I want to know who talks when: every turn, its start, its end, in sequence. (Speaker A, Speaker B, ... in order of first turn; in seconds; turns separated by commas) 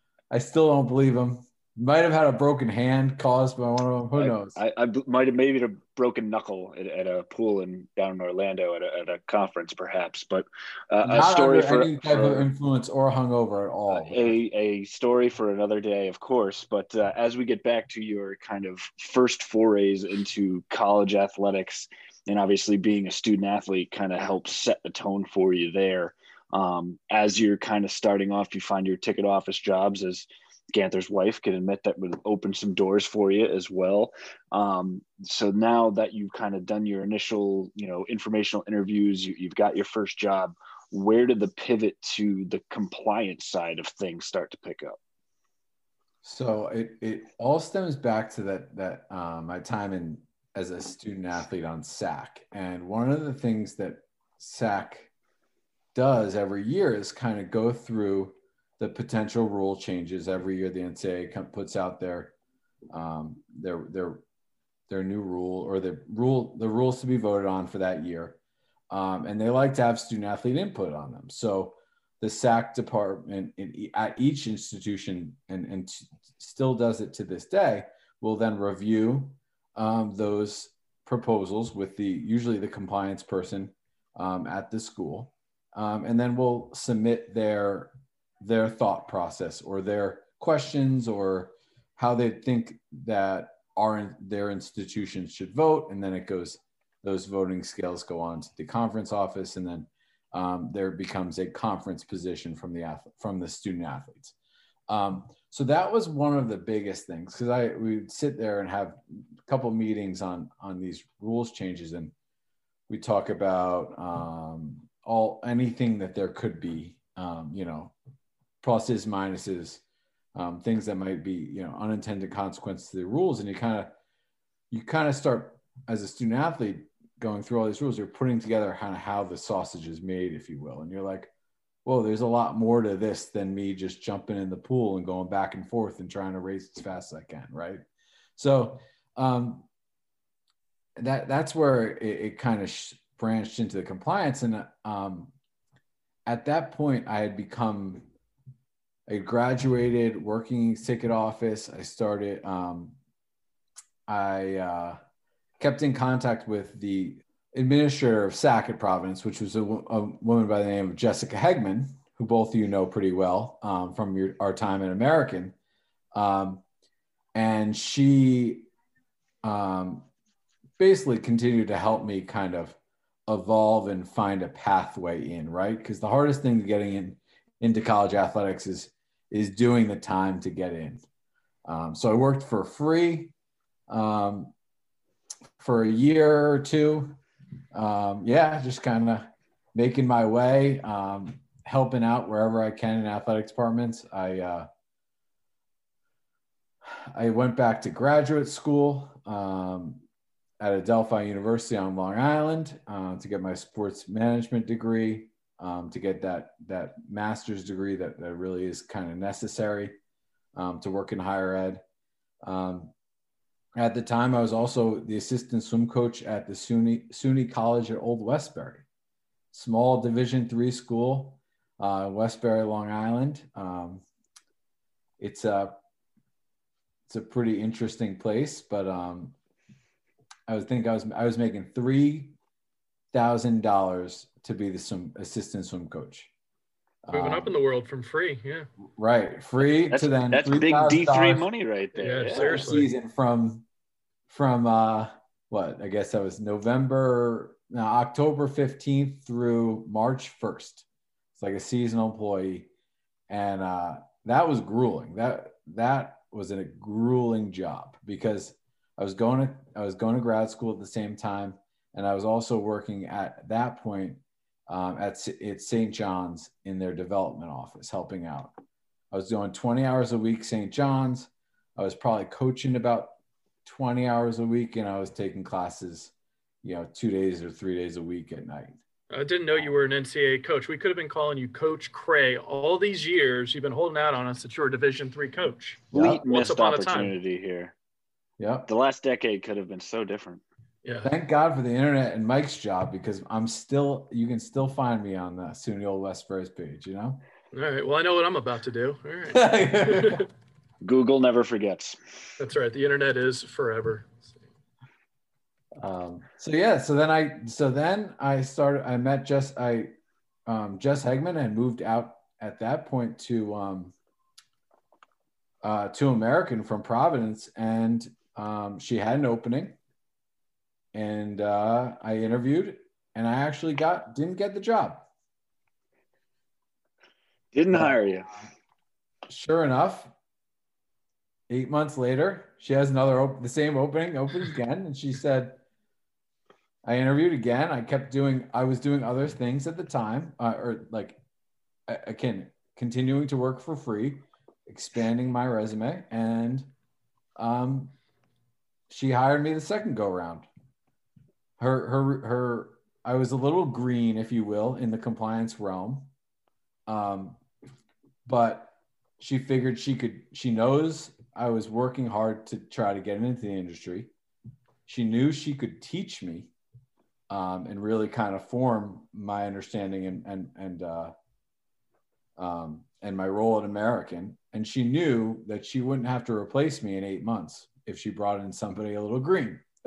Speaker A: 0.3-4.6, Speaker B: 4.2-12.5, Speaker A: 11.0-14.3, Speaker B: 13.9-45.0, Speaker A: 46.2-55.1, Speaker A: 56.0-62.3, Speaker A: 62.9-64.2, Speaker A: 64.9-68.4, Speaker A: 68.9-104.3, Speaker A: 104.9-112.1, Speaker A: 112.9-117.9, Speaker A: 118.6-119.8, Speaker A: 120.3-123.9, Speaker A: 124.7-131.3, Speaker A: 131.8-137.8, Speaker A: 138.4-139.7, Speaker A: 141.0-145.3, Speaker A: 146.3-148.1, Speaker A: 149.1-153.0, Speaker A: 154.1-155.0, Speaker A: 155.6-165.6, Speaker A: 166.1-166.6, Speaker A: 167.3-168.7, Speaker A: 169.4-170.1, Speaker A: 170.8-181.0, Speaker A: 181.7-183.3, Speaker A: 183.9-184.5, Speaker A: 185.6-187.2, Speaker A: 187.7-194.7, Speaker A: 197.1-200.0, Speaker A: 200.6-210.0, Speaker A: 210.6-211.8, Speaker A: 212.4-212.9, Speaker A: 213.8-218.8, Speaker A: 219.5-224.0, Speaker A: 225.2-225.8, Speaker A: 227.1-229.3, Speaker A: 230.5-232.3, Speaker A: 233.1-236.3, Speaker A: 237.1-237.5, Speaker C: 237.1-238.7, Speaker A: 239.0-241.5, Speaker B: 239.9-242.7, Speaker C: 242.0-242.9, Speaker A: 242.3-243.7, Speaker A: 244.3-252.7, Speaker A: 253.3-268.6, Speaker A: 269.1-278.8, Speaker C: 279.1-287.1, Speaker B: 285.9-287.8, Speaker A: 285.9-286.2, Speaker A: 288.4-288.7, Speaker B: 288.7-290.4, Speaker C: 290.8-291.1, Speaker A: 291.0-297.2, Speaker C: 297.5-300.3, Speaker A: 299.3-300.2, Speaker B: 300.8-302.0, Speaker C: 302.4-304.3, Speaker A: 305.8-309.9, Speaker A: 310.5-313.9, Speaker A: 315.6-319.8, Speaker A: 320.9-325.1, Speaker B: 327.5-328.3, Speaker A: 329.3-330.1, Speaker A: 331.5-335.6, Speaker A: 336.8-341.2, Speaker A: 341.9-346.7, Speaker A: 347.4-347.9, Speaker A: 348.9-350.5, Speaker A: 351.6-356.1, Speaker A: 356.9-357.4, Speaker A: 358.2-364.1, Speaker A: 364.9-366.5, Speaker A: 367.3-371.1, Speaker A: 372.4-379.6